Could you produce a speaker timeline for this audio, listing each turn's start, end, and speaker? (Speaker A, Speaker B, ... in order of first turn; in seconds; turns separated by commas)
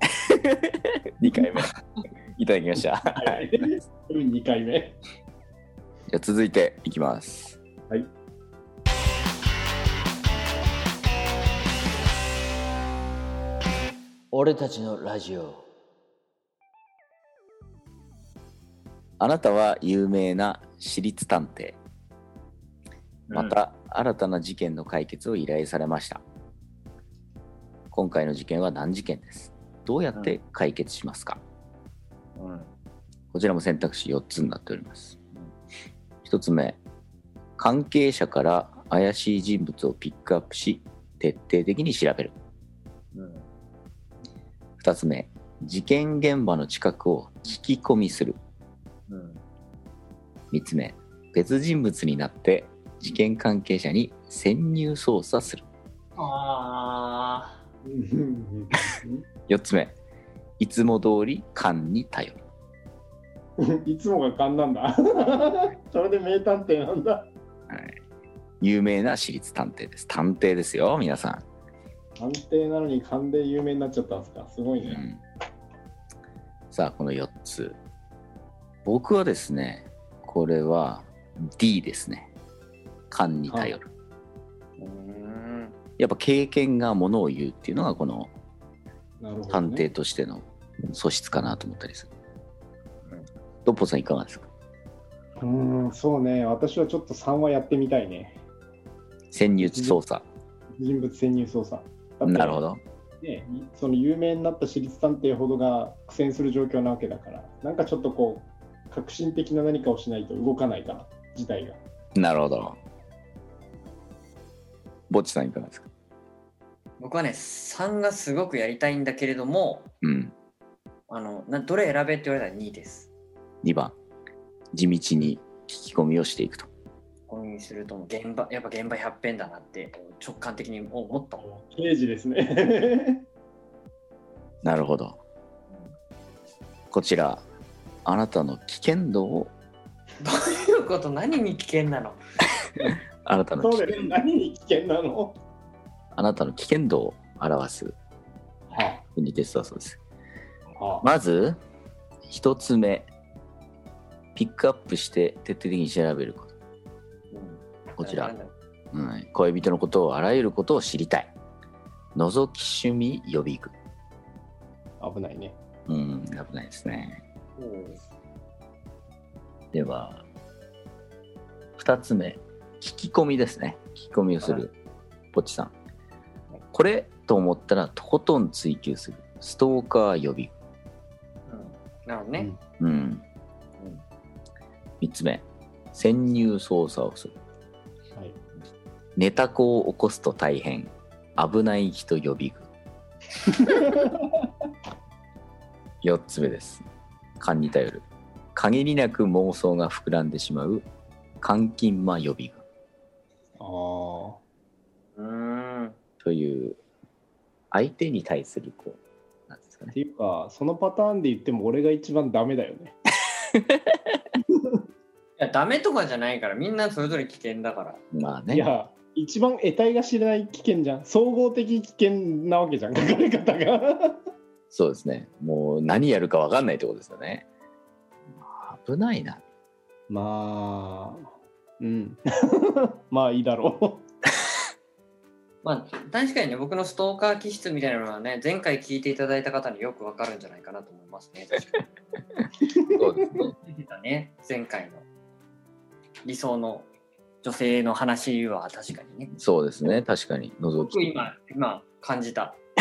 Speaker A: 0.3-1.7, Speaker A: 2.4-3.7, Speaker B: 3.2-5.0, Speaker A: 6.1-7.6, Speaker A: 14.3-15.6, Speaker A: 19.2-21.8, Speaker C: 23.3-23.6, Speaker A: 23.3-26.2, Speaker A: 27.9-31.4, Speaker C: 32.4-32.7, Speaker A: 33.3-35.2, Speaker A: 36.2-36.8, Speaker A: 37.6-42.3, Speaker C: 43.1-43.5, Speaker A: 44.8-48.4, Speaker C: 49.1-49.4, Speaker A: 50.5-55.6, Speaker C: 56.2-57.6, Speaker B: 57.8-59.2, Speaker A: 59.5-59.9, Speaker A: 60.6-62.4, Speaker B: 63.6-67.3, Speaker A: 67.7-68.0, Speaker A: 68.6-71.4, Speaker B: 72.2-75.0, Speaker A: 74.8-75.2, Speaker A: 76.7-77.8, Speaker A: 78.8-82.3, Speaker A: 83.1-83.9, Speaker B: 83.5-83.8, Speaker C: 84.8-85.7, Speaker A: 86.0-88.3, Speaker B: 89.2-89.9, Speaker A: 89.5-92.1, Speaker A: 93.6-94.5, Speaker B: 95.4-98.4, Speaker A: 99.3-100.2, Speaker B: 99.6-100.0, Speaker B: 100.8-102.6, Speaker A: 102.2-102.8, Speaker B: 103.2-111.8, Speaker A: 112.2-112.8, Speaker A: 115.1-115.9, Speaker C: 117.0-119.9, Speaker A: 120.0-120.3, Speaker C: 121.1-123.1, Speaker A: 123.6-124.0, Speaker A: 124.7-126.7, Speaker C: 127.3-131.4, Speaker B: 131.4-133.2, Speaker A: 134.6-135.2, Speaker A: 136.9-137.4, Speaker A: 138.0-139.5, Speaker C: 140.2-142.2, Speaker A: 143.2-144.1, Speaker B: 143.6-145.4, Speaker A: 146.2-147.9, Speaker B: 148.7-149.0, Speaker A: 149.2-150.0, Speaker B: 150.8-151.1, Speaker A: 151.0-151.6, Speaker A: 152.3-153.1, Speaker A: 154.3-156.5, Speaker C: 157.3-158.5, Speaker A: 158.0-158.3, Speaker A: 158.9-161.3, Speaker A: 162.2-163.7, Speaker B: 165.0-165.6, Speaker A: 165.9-167.2, Speaker C: 167.6-168.0, Speaker A: 169.7-170.2, Speaker A: 171.8-174.7, Speaker A: 175.3-175.7, Speaker A: 176.7-180.5, Speaker C: 181.5-182.5, Speaker A: 182.8-183.2, Speaker A: 185.0-187.3, Speaker A: 189.2-192.7, Speaker B: 193.5-194.4, Speaker A: 196.0-196.8, Speaker A: 197.4-200.8, Speaker A: 201.4-202.6, Speaker B: 203.6-204.4, Speaker C: 205.2-206.0, Speaker A: 206.2-206.8, Speaker A: 207.7-209.9, Speaker B: 209.9-212.9, Speaker A: 213.5-214.2, Speaker C: 215.4-218.0, Speaker A: 218.1-218.6, Speaker B: 218.5-224.2, Speaker A: 224.7-227.5, Speaker A: 228.5-229.4, Speaker B: 230.1-234.0, Speaker C: 235.6-241.9, Speaker B: 242.7-243.5, Speaker A: 242.9-243.5, Speaker C: 243.3-245.0, Speaker C: 246.2-246.9, Speaker C: 247.4-249.3, Speaker A: 249.3-251.1, Speaker C: 250.7-252.6